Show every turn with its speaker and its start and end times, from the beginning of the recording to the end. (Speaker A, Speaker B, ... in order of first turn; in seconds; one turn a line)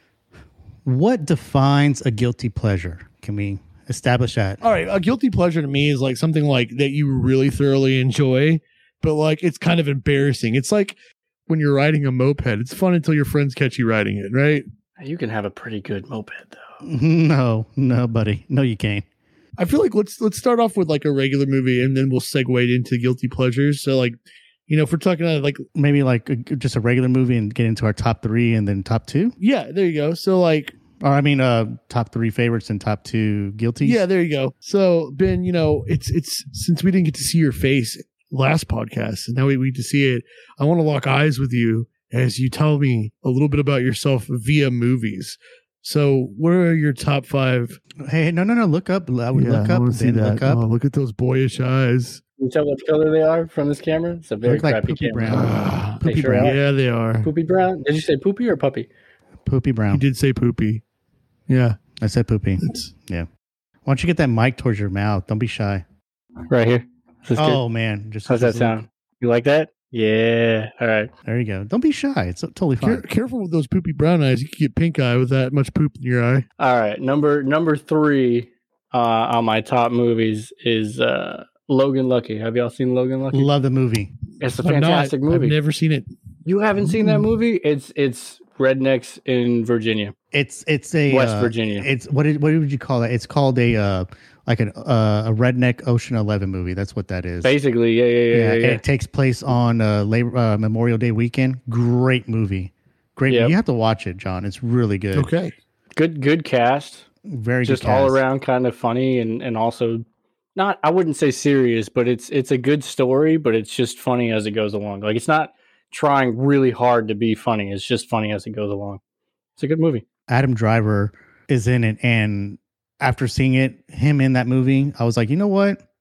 Speaker A: 0.8-4.6
Speaker B: 4.6-11.0
Speaker B: 11.5-14.7
Speaker C: 15.0-16.8
Speaker A: 16.8-19.1
Speaker B: 19.6-24.2
Speaker B: 24.7-25.6
Speaker A: 25.7-29.4
Speaker B: 29.4-30.8
Speaker A: 31.0-34.0
Speaker B: 33.8-47.8
Speaker A: 48.0-50.6
Speaker B: 49.3-52.2
Speaker C: 52.4-55.5
Speaker A: 54.4-56.6
Speaker B: 55.3-57.3
Speaker C: 56.0-56.6
Speaker C: 57.2-58.9
Speaker A: 59.5-60.0
Speaker B: 59.9-60.8
Speaker B: 61.5-61.8
Speaker A: 62.0-63.3
Speaker B: 62.6-62.9
Speaker A: 63.9-65.8
Speaker C: 66.5-67.6
Speaker A: 67.4-68.7
Speaker C: 68.3-71.1
Speaker A: 71.2-73.0
Speaker B: 72.8-76.5
Speaker C: 76.6-83.5
Speaker A: 83.3-84.1
Speaker C: 84.4-85.5
Speaker B: 84.6-86.1
Speaker C: 86.5-90.1
Speaker A: 90.3-97.5
Speaker C: 91.1-91.9
Speaker C: 97.4-98.8
Speaker A: 98.3-105.3
Speaker C: 103.3-103.5
Speaker B: 105.2-105.5
Speaker C: 106.0-107.1
Speaker A: 107.2-108.2
Speaker C: 107.7-110.0
Speaker C: 110.6-119.0
Speaker C: 119.6-120.0
Speaker A: 120.3-125.8